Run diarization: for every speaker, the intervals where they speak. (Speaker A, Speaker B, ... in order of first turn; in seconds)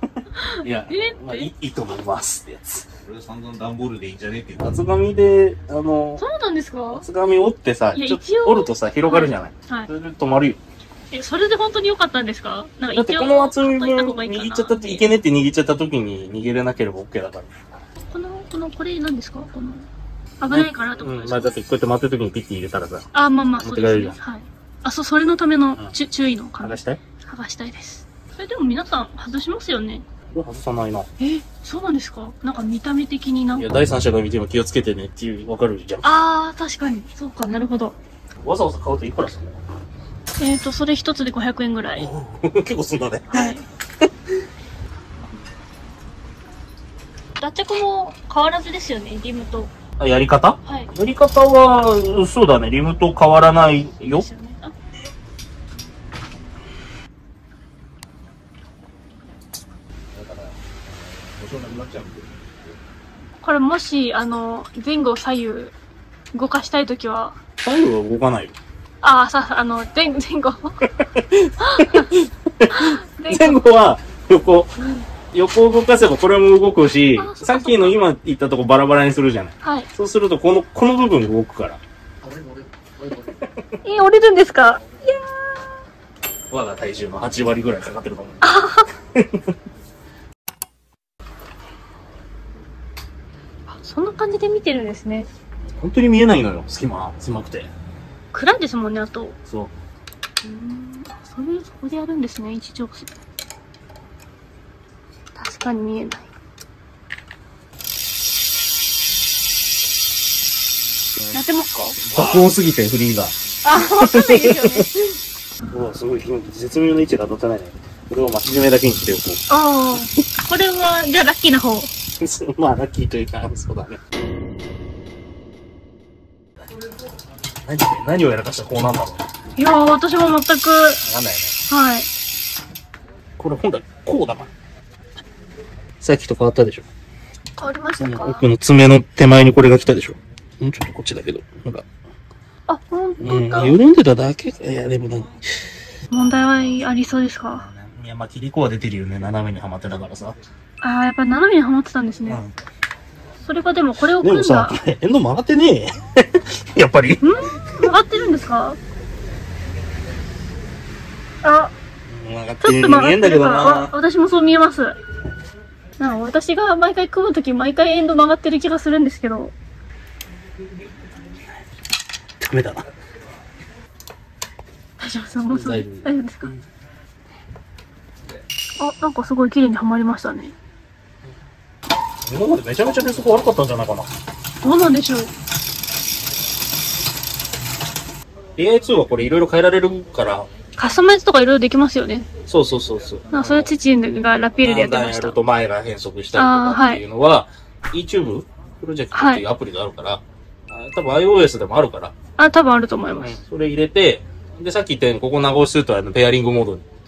Speaker A: 0.4-1.5, 6.2-7.1, 7.9-9.9, 11.1-15.1, 18.1-19.9, 20.4-21.6, 23.1-30.0, 31.2-33.7, 36.0-37.9, 40.4-42.1, 43.3-43.6, 47.4-49.7, 50.6-50.9, 54.0-54.7, 63.4-65.7, 66.3-67.4, 69.0-70.8, 71.7-72.1, 72.7-73.6, 77.2-78.0, 79.6-79.9, 83.8-85.2, 88.4-88.9, 93.7-95.3, 98.3-99.4, 100.4-103.1, 105.3-106.3, 111.3-112.0, 113.6-114.9, 119.5-121.9, 129.6-131.0, 131.7-132.1, 137.6-138.4, 142.7-143.8, 146.1-147.7, 150.8-152.4, 153.4-154.8, 157.2-158.8, 161.4-161.7, 162.6-165.0, 166.0-169.5, 175.0-176.5, 178.8-180.5, 184.6-185.3, 190.8-192.3, 193.3-195.4, 196.3-197.0, 199.1-199.4, 202.4-203.4
Speaker B: 0.5-2.9, 4.6-6.2, 6.9-10.6, 12.9-17.5, 20.5-23.1, 23.6-24.2, 26.6-27.0, 30.3-31.1, 33.5-36.0, 38.4-39.6, 41.9-43.5, 50.0-54.2, 67.6-68.5, 70.8-81.8, 83.1-83.6, 86.5-88.6, 89.1-89.5, 95.7-97.7, 99.5-99.7, 112.1-114.9, 115.7-119.4, 122.2-124.0, 127.6-129.2, 131.0-131.5, 133.4-134.5, 136.0-136.9, 138.0-141.8, 143.2-145.4, 146.3-146.7, 147.5-150.4, 152.3-152.5, 154.2-157.2, 162.1-163.9, 172.4-172.9, 175.5-176.6, 182.2-184.1, 188.6-190.5, 192.4-193.7, 194.6-202.1, 203.1-206.8
Speaker C: 3.0-4.8, 60.1-62.8